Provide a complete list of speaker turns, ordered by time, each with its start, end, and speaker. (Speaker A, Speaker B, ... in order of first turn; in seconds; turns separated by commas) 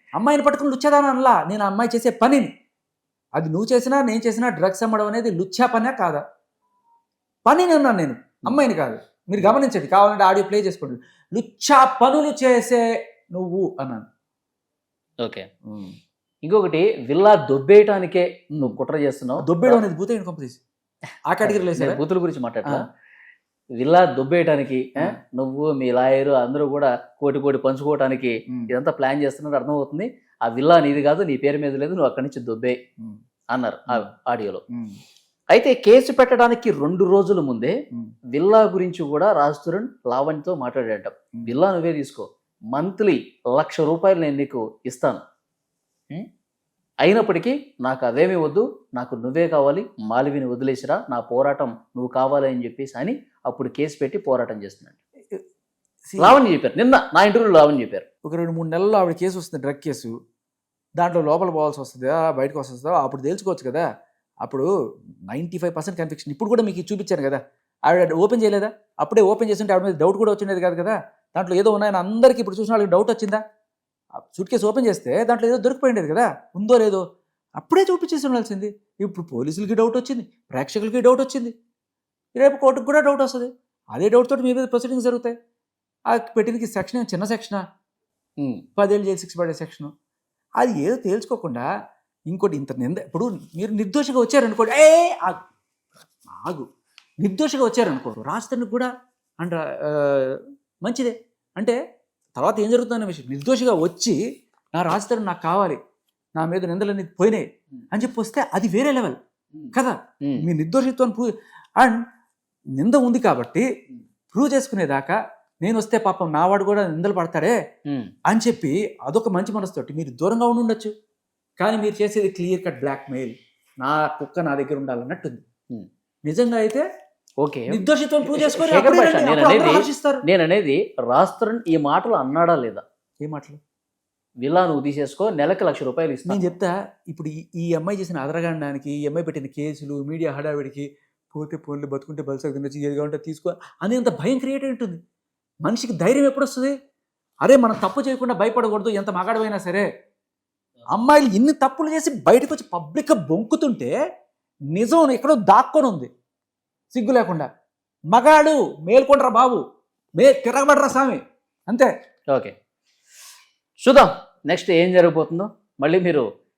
Speaker A: 0.1-2.5, Speaker A: 3.4-6.2, Speaker A: 7.5-14.1, Speaker A: 15.7-16.0, Speaker B: 16.4-19.8, Speaker A: 19.4-20.6, Speaker A: 21.3-22.0, Speaker B: 21.4-22.9, Speaker B: 23.8-32.8, Speaker B: 33.5-34.6, Speaker A: 34.7-35.0, Speaker B: 35.5-37.8, Speaker B: 38.3-45.2, Speaker B: 47.0-55.0, Speaker A: 56.1-56.4, Speaker B: 56.2-58.0, Speaker A: 58.2-60.1, Speaker A: 61.0-63.9, Speaker A: 64.4-64.7, Speaker A: 65.3-73.4, Speaker A: 74.2-77.0, Speaker A: 77.6-81.5, Speaker A: 82.4-85.4, Speaker A: 86.1-87.6, Speaker A: 88.8-89.9, Speaker A: 90.6-91.7, Speaker A: 92.3-95.4, Speaker A: 96.2-96.7, Speaker A: 97.2-98.9, Speaker A: 99.4-101.8, Speaker A: 102.4-104.2, Speaker A: 104.7-105.8, Speaker A: 106.4-109.2, Speaker B: 109.6-110.5, Speaker A: 109.7-112.0, Speaker A: 112.8-113.7, Speaker A: 114.3-117.6, Speaker A: 118.3-120.9, Speaker A: 121.6-125.4, Speaker A: 126.2-126.9, Speaker B: 127.4-132.8, Speaker A: 127.7-130.2, Speaker A: 133.2-133.6, Speaker B: 134.4-136.4, Speaker A: 136.3-145.0, Speaker A: 145.7-146.8, Speaker A: 147.4-149.9, Speaker A: 150.9-153.9, Speaker A: 154.7-156.1, Speaker A: 156.9-157.5, Speaker A: 158.1-159.6, Speaker A: 160.2-161.9, Speaker B: 163.8-166.3